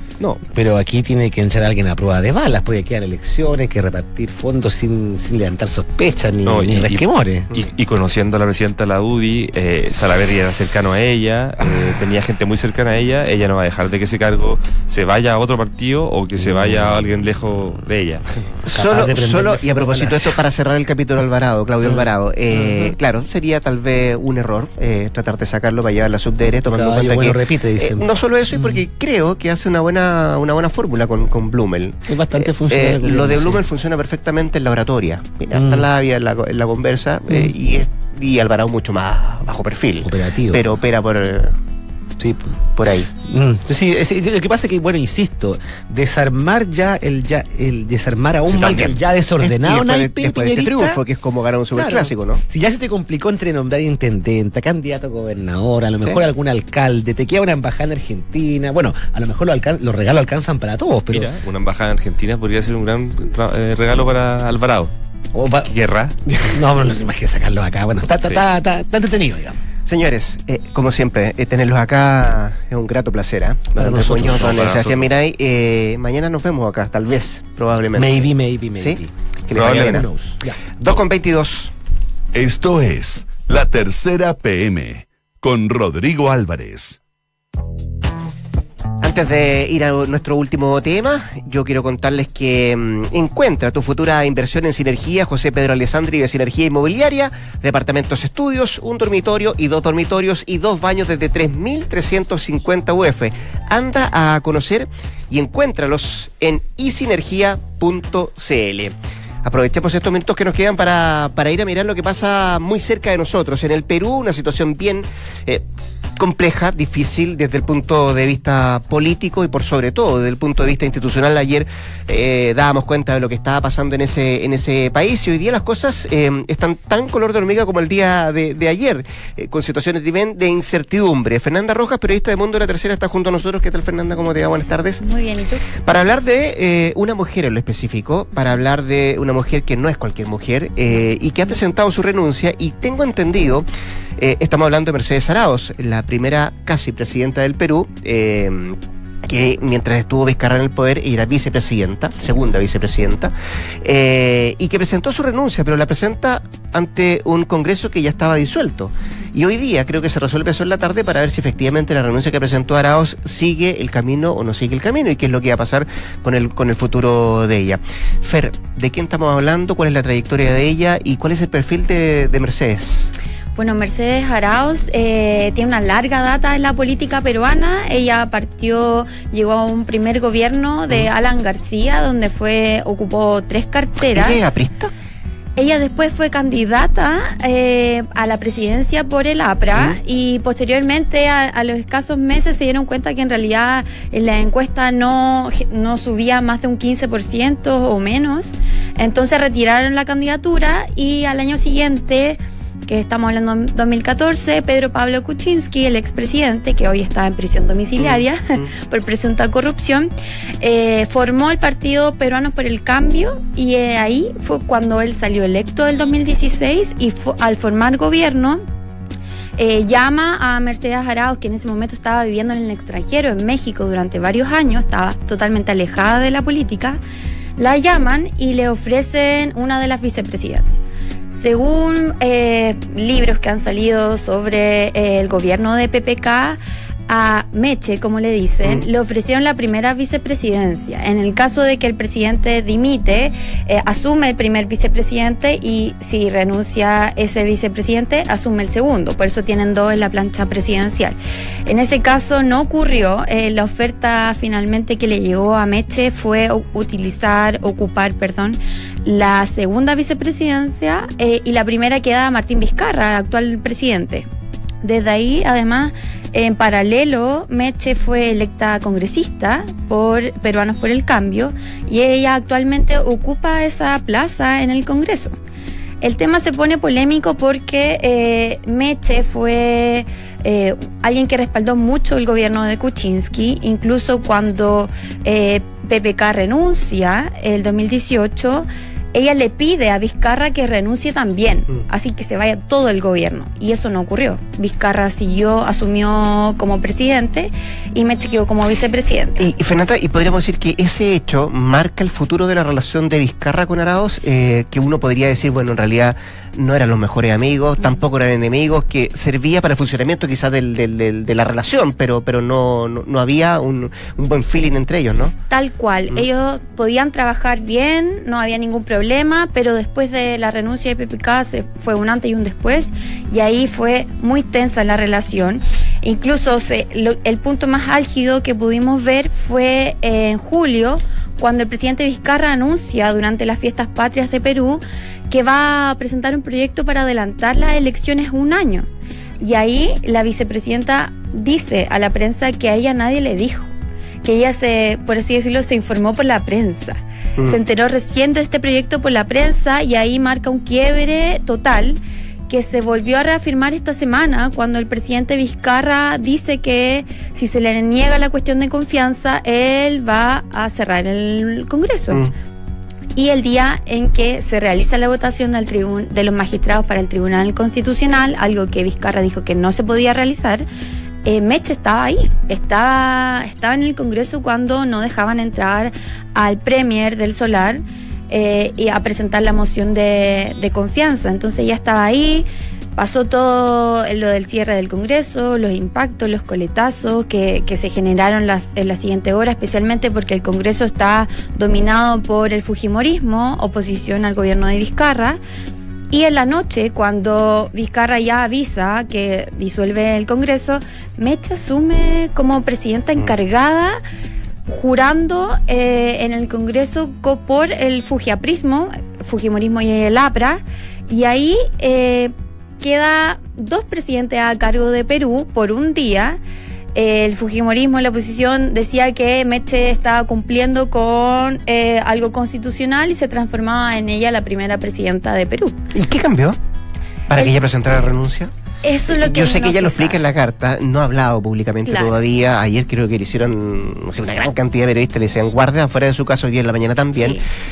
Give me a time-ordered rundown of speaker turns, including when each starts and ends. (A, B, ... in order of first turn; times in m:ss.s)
0:00.5-0:07.6 A
0:06.4-0:18.2 B
0:16.4-0:16.8 A
0:18.6-0:41.6 C
0:18.7-0:20.4 A
0:21.8-0:23.0 A
0:26.7-0:28.8 A
0:32.1-0:33.6 A
0:35.5-0:35.9 A
0:40.0-0:40.6 A
0:42.2-0:51.0 A
0:42.8-0:43.1 C
0:48.5-0:49.0 B
0:49.4-0:52.4 C
0:51.7-1:01.3 A
1:01.1-1:04.9 B
1:05.3-1:05.7 A
1:05.6-1:06.2 B
1:06.4-1:09.6 A
1:09.9-1:18.2 C
1:13.8-1:14.5 A
1:14.3-1:15.1 B
1:17.9-1:20.6 A
1:18.8-1:20.1 C
1:19.6-1:20.0 B
1:20.8-1:21.7 C
1:22.3-1:27.0 D
1:29.0-2:15.0 C
2:15.0-2:15.6 E
2:15.8-2:23.7 C
2:24.2-2:53.1 C
2:53.6-3:04.5 E
3:04.1-3:04.9 C
3:05.6-3:38.6 E
3:28.0-3:28.7 C
3:39.6-3:47.0 E
3:47.6-4:24.3 E
4:24.8-4:35.3 E
4:36.0-4:59.4 E
4:59.4-5:15.4 C
5:15.5-5:38.9 E
5:39.4-5:43.7 E
5:44.2-6:02.3 E
6:03.2-6:10.7 E
6:11.2-6:35.4 E
6:36.1-6:44.0 E
6:44.7-6:56.4 E
6:57.0-7:05.8 E
7:05.9-7:06.6 C
7:07.3-7:08.5 C
7:08.8-7:10.2 E
7:09.1-7:17.4 C
7:11.8-7:12.2 E
7:17.2-7:17.4 E